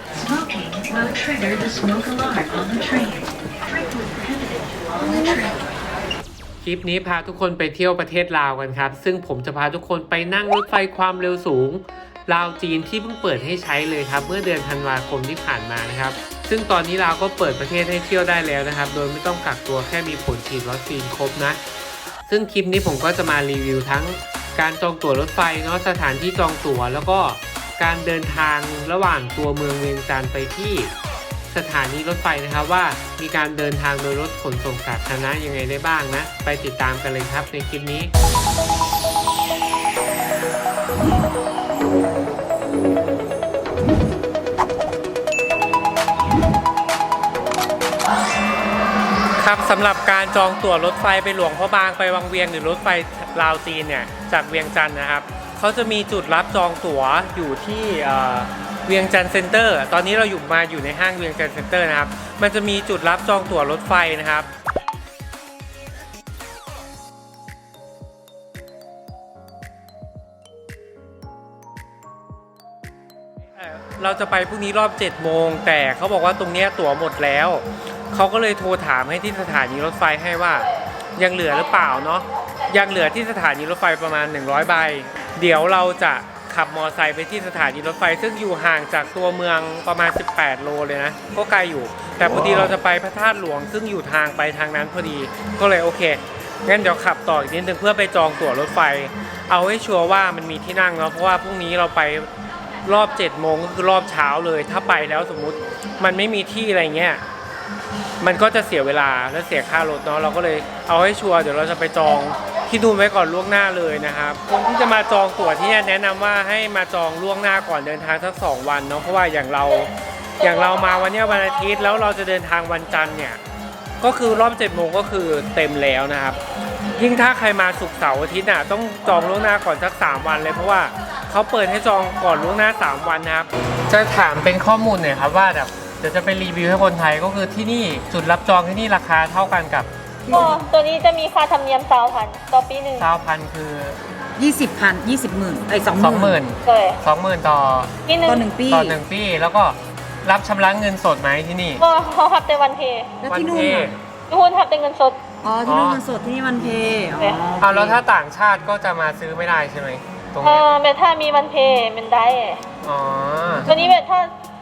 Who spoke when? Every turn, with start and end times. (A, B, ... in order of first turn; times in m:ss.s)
0:00.1-0:05.8 A
0:06.6-0:21.6 B
0:22.3-0:30.9 B
0:31.5-0:38.1 B
0:49.4-1:04.5 B
1:13.6-1:42.3 B
1:42.8-1:47.2 B
1:48.2-2:03.4 B
2:04.0-2:06.4 B
2:06.9-2:19.9 B
2:20.2-2:20.6 C
2:20.3-2:23.1 D
2:23.0-2:24.0 B
2:24.4-2:26.4 C
2:25.9-2:27.9 B
2:26.6-2:27.0 D
2:28.0-2:28.4 D
2:28.2-2:29.0 C
2:28.7-2:31.8 B
2:31.8-2:33.1 D
2:33.2-2:33.9 C
2:33.3-2:34.0 B
2:34.3-2:35.2 D
2:35.4-2:38.0 C
2:35.6-2:36.0 B
2:37.6-2:40.7 B
2:40.4-2:42.6 D
2:42.8-2:43.7 B
2:43.6-2:44.3 D